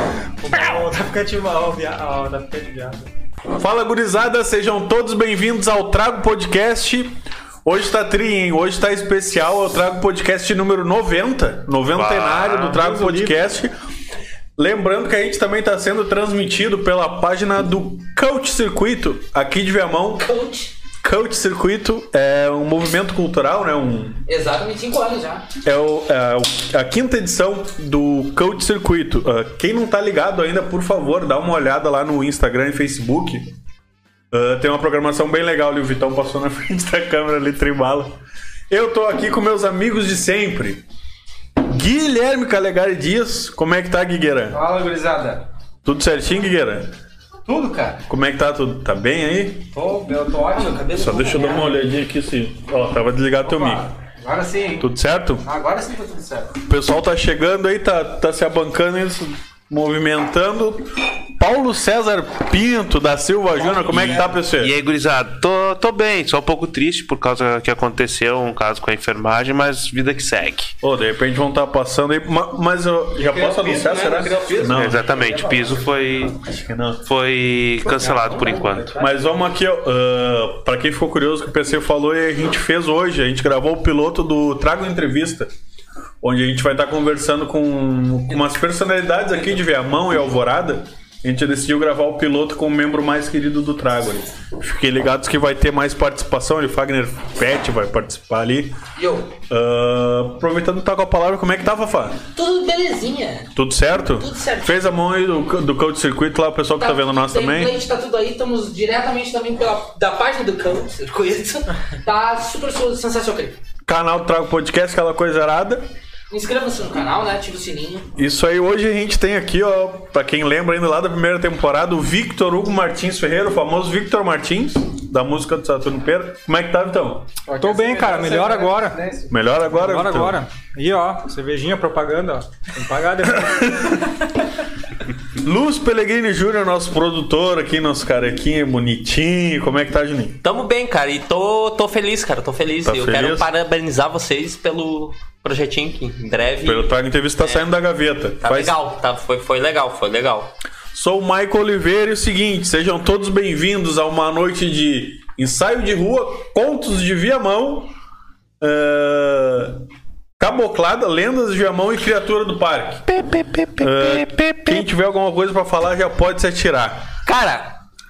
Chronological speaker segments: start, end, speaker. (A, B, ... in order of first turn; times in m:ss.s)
0:00.4-0:03.1 A
0:03.6-0:13.8 B
0:11.9-0:13.2 C
0:13.0-0:13.2 A
0:14.6-0:20.3 B
0:20.2-0:20.8 D
0:21.0-0:24.3 B
0:24.3-0:25.5 D
0:25.6-0:33.5 B
0:34.3-0:38.2 B
0:38.7-0:40.8 B
0:41.6-0:44.6 B
0:44.5-0:45.5 E
0:45.8-0:47.0 B
0:47.5-0:48.0 E
0:48.1-0:49.7 B
0:49.7-0:51.8 E
0:50.6-0:51.5 D
0:50.9-0:54.0 B
0:53.4-0:54.9 E
0:54.8-0:55.5 B
0:55.4-0:56.6 E
0:56.7-1:04.8 B
1:03.6-1:04.3 E
1:03.9-1:10.8 C
1:10.8-1:15.2 B
1:13.2-1:15.9 E
1:14.6-1:16.4 C
1:16.4-1:17.0 B
1:17.0-1:19.0 C
1:18.0-1:19.2 E
1:19.0-1:25.5 B
1:26.2-1:38.8 B
1:39.0-1:39.3 D
1:39.5-1:42.2 B
1:42.4-1:43.5 D
1:43.6-1:47.8 B
1:44.2-1:44.9 D
1:46.8-1:53.6 D
1:53.9-1:55.8 B
1:56.3-1:58.1 D
1:58.2-2:07.3 B
2:07.5-2:09.3 E
2:07.6-2:09.0 A
2:09.3-2:10.4 B
2:09.8-2:14.0 A
2:13.7-2:14.0 B
2:15.3-2:20.4 B
2:20.4-2:27.7 F
2:22.8-2:23.5 B
2:26.6-2:28.8 B
2:28.4-2:30.5 F
2:30.9-2:37.9 B
2:38.6-2:39.8 B
2:40.4-2:43.1 B
2:43.1-2:44.8 F
2:43.8-2:47.1 B
2:47.2-2:47.8 F